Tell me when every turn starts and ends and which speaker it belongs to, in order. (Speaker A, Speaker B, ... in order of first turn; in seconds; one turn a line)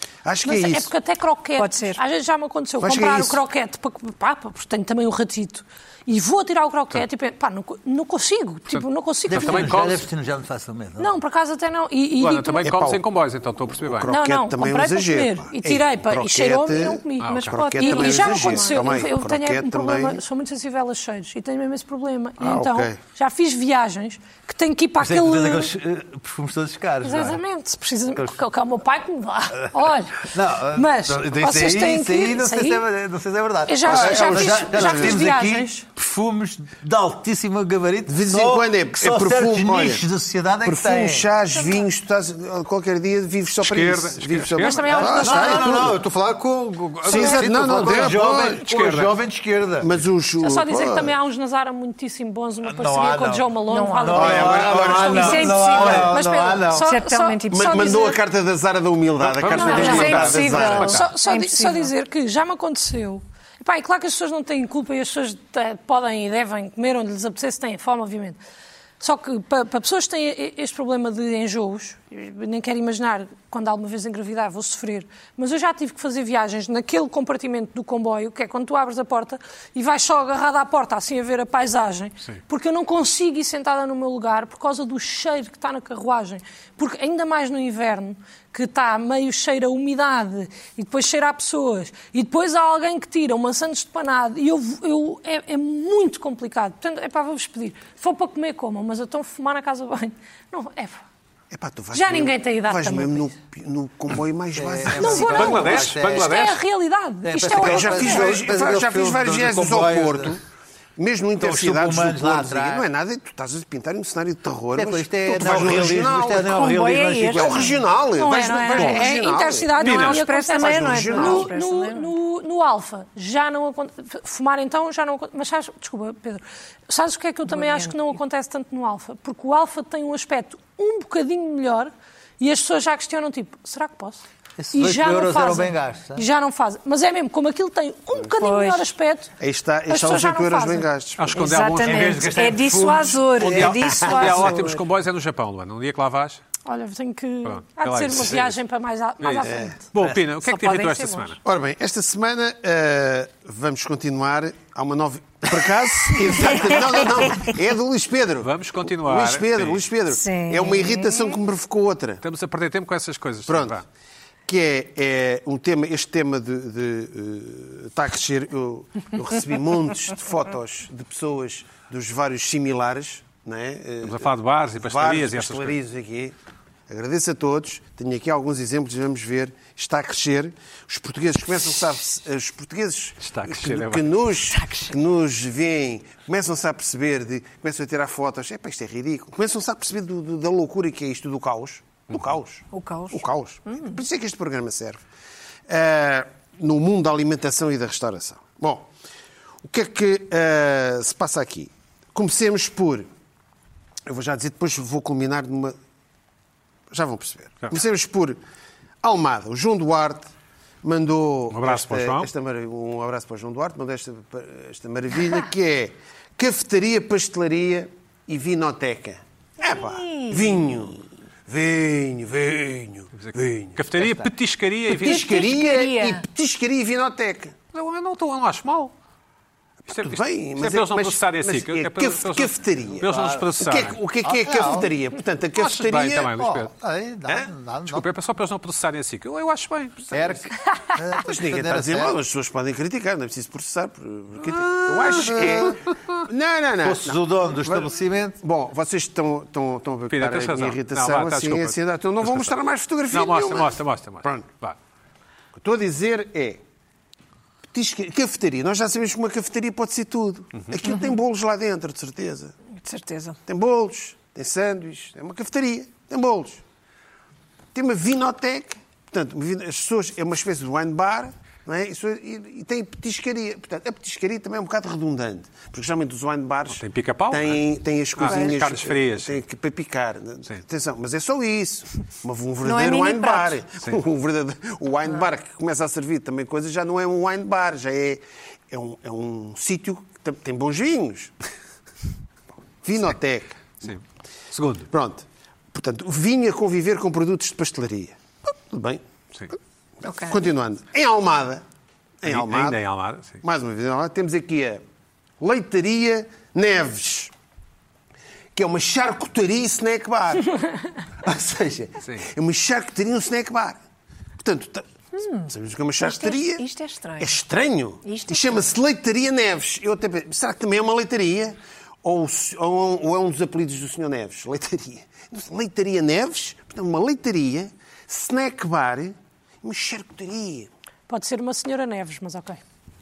Speaker A: 0.2-0.9
Speaker B: 0.4-9.7
Speaker C: 1.6-2.0
Speaker A: 2.8-3.4
Speaker D: 8.7-10.0
Speaker E: 9.3-11.2
Speaker B: 11.0-12.6
Speaker D: 12.2-14.1
Speaker A: 12.6-13.0
Speaker A: 13.8-20.2
Speaker B: 14.1-25.7
Speaker D: 17.2-17.6
Speaker C: 17.2-18.9
Speaker A: 22.4-23.0
Speaker E: 25.0-27.4
Speaker B: 27.0-32.8
Speaker E: 29.6-41.3
Speaker B: 33.7-35.9
Speaker A: 33.9-35.2
Speaker A: 38.1-40.0
Speaker A: 40.6-46.0
Speaker C: 41.5-41.8
Speaker D: 43.6-44.9
Speaker B: 44.6-45.9
Speaker E: 44.9-49.9
Speaker A: 47.0-48.6
Speaker D: 47.6-49.1
Speaker A: 49.8-51.1
Speaker B: 50.4-58.2
Speaker E: 52.6-56.9
Speaker C: 53.7-58.1
Speaker A: 54.1-56.1
Speaker A: 57.5-61.0
Speaker D: 59.2-61.1
Speaker C: 59.5-61.9
Speaker B: 59.6-60.2
Speaker B: 60.9-68.4
Speaker B: 69.0-101.0
Speaker A: 101.5-105.6
Speaker B: 101.9-103.3
Speaker E: 104.5-106.4
Speaker B: 105.0-108.3
Speaker D: 105.3-106.6
Speaker E: 107.2-110.4
Speaker A: 107.6-110.4
Speaker A: 111.0-116.6
Speaker E: 111.4-112.8
Speaker E: 114.7-117.8
Speaker C: 116.4-117.8
Speaker A: 117.2-120.0
Speaker B: 118.2-139.3
Speaker D: 119.8-120.2
Speaker C: 119.8-122.1
Speaker A: 120.5-121.5
Speaker C: 127.5-128.0
Speaker E: 134.6-136.2
Speaker C: 138.4-138.9
Speaker A: 139.4-141.4
Speaker B: 139.9-140.8
Speaker D: 141.2-142.6
Speaker C: 141.3-144.8
Speaker E: 141.8-144.0
Speaker D: 143.4-146.4
Speaker B: 146.6-149.8
Speaker D: 147.4-148.5
Speaker D: 149.2-151.4
Speaker A: 149.4-149.8
Speaker C: 150.4-151.3
Speaker A: 151.4-162.2
Speaker C: 156.3-157.6
Speaker D: 158.4-159.8
Speaker C: 160.1-161.3
Speaker D: 162.2-163.8
Speaker A: 163.4-163.8
Speaker A: 164.5-176.3
Speaker D: 174.0-175.8
Speaker A: 176.9-195.0
Speaker D: 183.2-184.1
Speaker C: 184.5-184.9
Speaker C: 192.7-194.0
Speaker A: 195.7-198.9
Speaker A: 199.6-203.1
Speaker A: 204.1-205.8
Speaker A: 206.9-208.4
Speaker A: 209.0-210.3
Speaker A: 210.8-223.8
Speaker D: 211.5-212.3
Speaker C: 219.6-220.6
Speaker D: 223.1-225.2
Speaker A: 225.0-227.5
Speaker C: 225.0-226.2
Speaker D: 227.7-228.9
Speaker A: 229.9-236.3
Speaker D: 229.9-234.0
Speaker E: 233.0-233.5
Speaker E: 234.2-234.9
Speaker D: 235.6-236.7
Speaker E: 236.3-238.1
Speaker D: 237.9-240.2
Speaker E: 240.1-242.2
Speaker A: 241.2-254.4
Speaker D: 244.8-245.3
Speaker E: 246.8-248.4
Speaker D: 250.1-252.6
Speaker D: 253.1-254.8
Speaker A: 255.5-256.6
Speaker A: 257.7-262.5
Speaker C: 260.9-261.1
Speaker C: 262.8-263.4
Speaker A: 263.5-266.6
Speaker A: 267.7-291.3
Speaker D: 276.7-277.6
Speaker D: 278.1-279.4
Speaker C: 278.2-278.5
Speaker C: 282.6-283.6
Speaker A: 292.8-293.7
Speaker D: 293.8-294.9
Speaker A: 294.9-299.0
Speaker C: 300.0-300.4
Speaker A: 300.2-301.6
Speaker A: 302.2-302.8
Speaker D: 302.2-303.4
Speaker A: 303.4-304.8
Speaker A: 305.4-307.3
Speaker A: 308.5-310.5
Speaker A: 311.2-313.8
Speaker A: 314.4-314.8
Speaker C: 315.1-315.5
Speaker A: 315.5-316.6
Speaker C: 316.0-317.4
Speaker A: 317.2-330.7
Speaker C: 318.0-318.7
Speaker B: 331.1-332.6